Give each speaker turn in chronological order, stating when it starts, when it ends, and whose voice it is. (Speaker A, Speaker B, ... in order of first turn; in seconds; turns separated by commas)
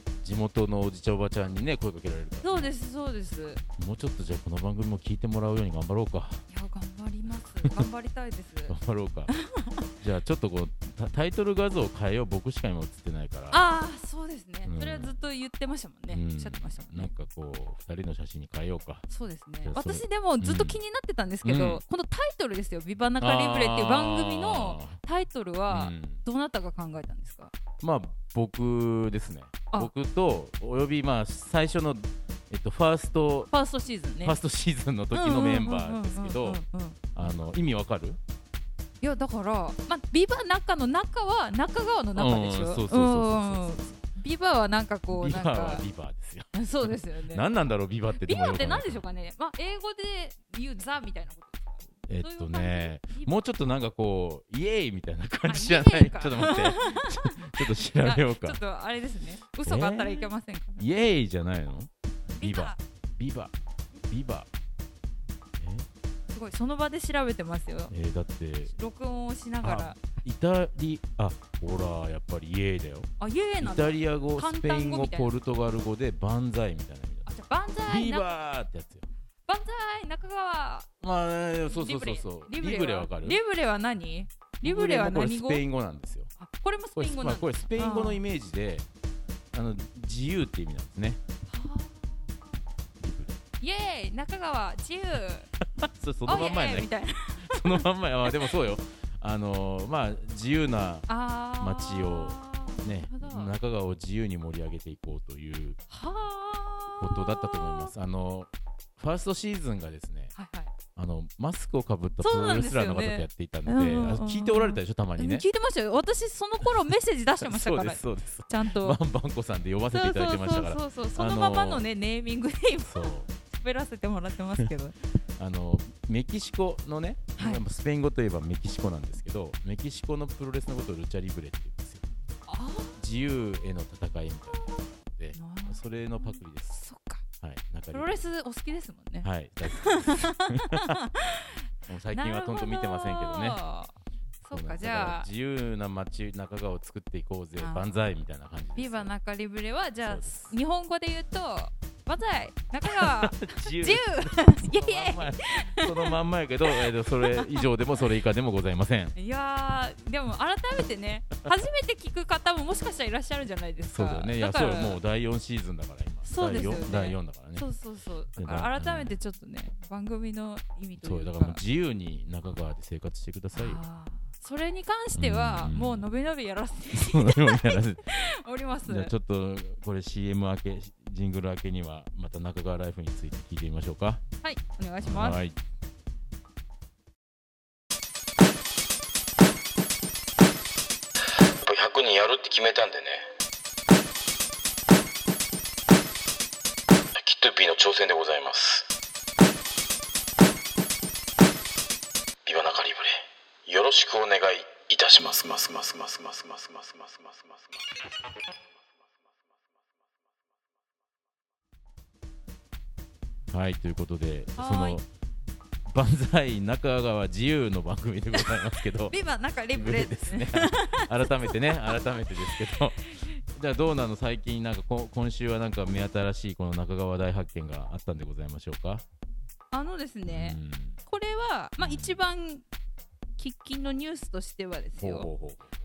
Speaker A: 0.2-2.7, Speaker B: 2.4-3.6, Speaker A: 3.8-6.5, Speaker B: 6.5-8.8, Speaker A: 7.3-7.9, Speaker A: 8.7-9.3, Speaker B: 9.3-9.8, Speaker A: 10.0-13.7, Speaker B: 13.5-17.1, Speaker A: 14.6-15.2, Speaker A: 16.1-19.1, Speaker B: 19.1-27.5, Speaker A: 19.6-20.8, Speaker A: 21.4-21.8, Speaker A: 23.2-25.0, Speaker A: 25.7-26.2, Speaker A: 27.8-33.5, Speaker B: 33.5-34.4, Speaker A: 34.2-36.6, Speaker B: 35.1-37.0, Speaker A: 37.1-38.2, Speaker B: 39.0-45.9, Speaker A: 42.2-44.0, Speaker A: 45.1-49.0, Speaker B: 46.5-47.5, Speaker B: 48.2-53.3, Speaker A: 52.1-58.6, Speaker B: 55.5-60.9, Speaker A: 59.6-63.5, Speaker B: 62.4-62.8, Speaker A: 64.1-64.5, Speaker A: 65.6-65.9, Speaker B: 66.3-67.9, Speaker A: 67.9-68.7, Speaker B: 68.7-70.0, Speaker A: 69.6-77.3, Speaker B: 73.2-75.3, Speaker B: 77.3-78.3, Speaker A: 77.9-79.1, Speaker B: 79.5-80.9, Speaker A: 81.0-83.4, Speaker B: 81.7-85.7, Speaker A: 84.6-86.3, Speaker B: 86.4-88.2, Speaker A: 87.0-88.9, Speaker A: 89.5-91.2, Speaker B: 91.5-92.6, Speaker A: 93.0-93.4, Speaker B: 93.6-95.5, Speaker A: 95.8-105.8, Speaker B: 96.2-98.5, Speaker B: 101.1-103.5, Speaker B: 105.9-107.9, Speaker A: 107.0-110.3, Speaker B: 110.3-110.7, Speaker A: 111.0-115.5, Speaker B: 112.2-119.0, Speaker A: 117.4-121.9, Speaker B: 119.9-125.0, Speaker A: 122.8-123.3, Speaker A: 125.4-132.1, Speaker B: 127.4-127.6, Speaker B: 132.5-133.4, Speaker A: 133.0-136.8, Speaker B: 134.5-134.8, Speaker B: 135.3-137.2, Speaker A: 137.4-138.3, Speaker B: 137.9-145.3, Speaker A: 139.2-141.0, Speaker A: 141.9-143.6, Speaker A: 144.5-149.1, Speaker B: 147.6-148.0, Speaker B: 148.8-156.2, Speaker A: 150.0-150.5, Speaker A: 152.8-159.2, Speaker B: 156.7-157.7, Speaker B: 159.2-165.0, Speaker A: 163.8-167.7, Speaker B: 166.2-171.6, Speaker A: 168.4-169.1, Speaker A: 171.0-173.8, Speaker B: 173.5-179.1, Speaker A: 175.1-176.1, Speaker A: 176.9-178.1, Speaker A: 178.8-184.2, Speaker B: 184.4-185.4, Speaker A: 185.0-185.6, Speaker C: 191.6-193.2, Speaker C: 197.2-198.9, Speaker C: 202.5-206.8, Speaker A: 213.5-215.1, Speaker B: 214.6-215.0, Speaker A: 215.9-219.2, Speaker B: 218.4-223.4, Speaker A: 219.7-229.0, Speaker B: 229.7-232.7, Speaker A: 230.3-231.0, Speaker A: 231.8-232.2, Speaker B: 233.4-235.3, Speaker A: 235.0-235.7